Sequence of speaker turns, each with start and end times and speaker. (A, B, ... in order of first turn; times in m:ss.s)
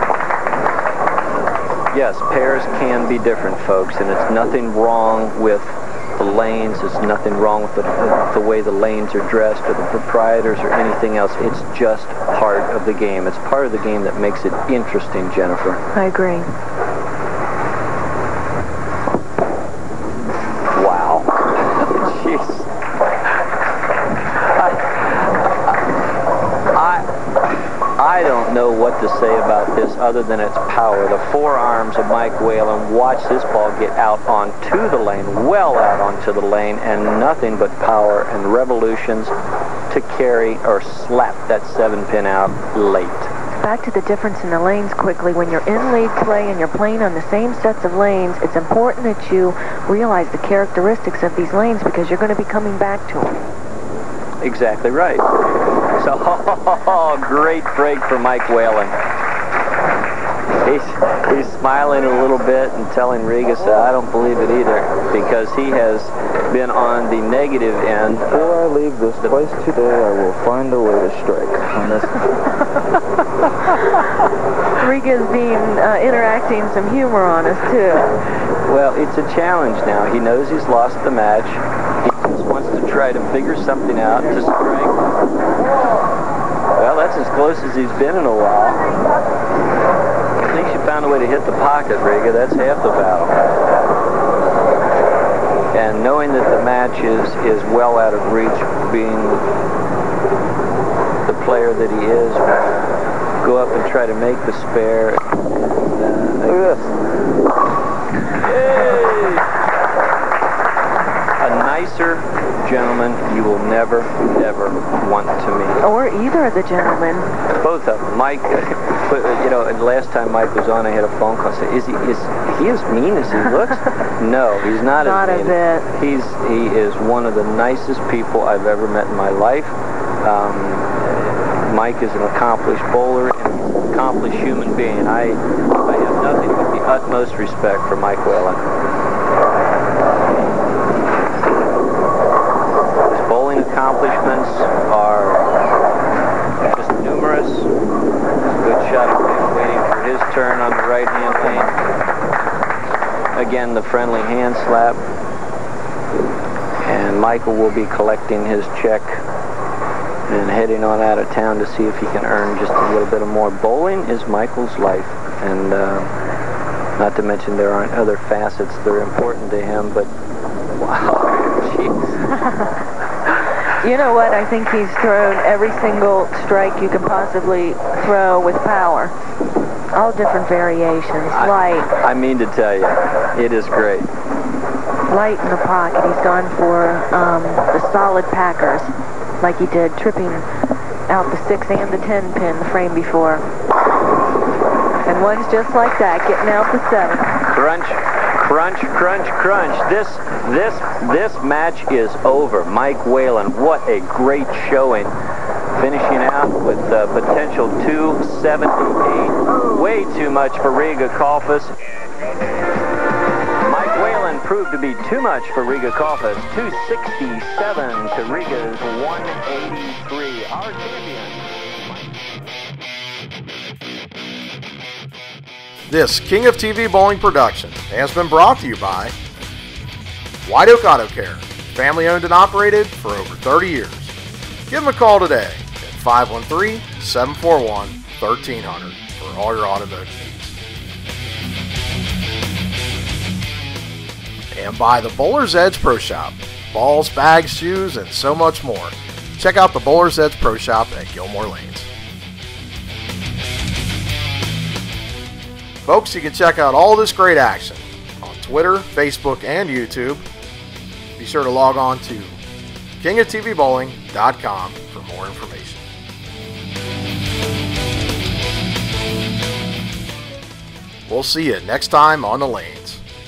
0:01.9-0:15.8 A
0:15.9-0:16.5 B
0:20.7-0:22.7 A
0:24.3-0:25.7 A
0:26.7-0:27.1 A
0:28.0-0:39.3 A
0:39.9-0:43.3 A
0:43.6-0:53.4 B
0:54.4-0:55.3 A
0:55.9-0:59.0 A
1:00.6-1:08.6 A
1:08.3-1:12.2 C
1:14.8-1:18.1 B
1:18.6-1:25.0 A
1:26.8-1:28.9 A
1:30.4-1:33.4 A
1:35.7-1:39.4 A
1:41.2-1:42.7 A
1:43.4-1:46.7 A
1:46.4-1:46.9 C
1:48.3-1:49.4 A
1:51.4-1:55.8 A
1:55.8-1:57.3 B
1:57.6-2:18.6 A
2:05.0-2:05.8 B
2:23.1-2:25.5 A
2:26.7-2:27.7 A
2:28.6-2:31.8 A
2:33.3-2:35.0 A
2:36.8-2:39.2 A
2:40.3-2:46.1 A
2:47.0-2:50.1 A
2:50.8-2:52.3 A
2:52.4-2:52.7 B
2:53.7-2:59.1 B
2:59.9-3:01.9 B
3:01.3-3:04.1 A
3:05.1-3:10.4 B
3:11.1-3:13.4 B
3:15.0-3:17.3 B
3:17.4-3:25.1 A
3:25.7-3:31.7 A
3:33.6-3:42.1 A
3:45.9-3:49.1 D
3:50.4-3:54.1 D
3:54.7-4:00.6 D
4:04.5-4:11.9 D
4:15.8-4:20.2 D
4:21.2-4:22.4 D
4:23.0-4:25.8 D
4:31.1-4:33.0 D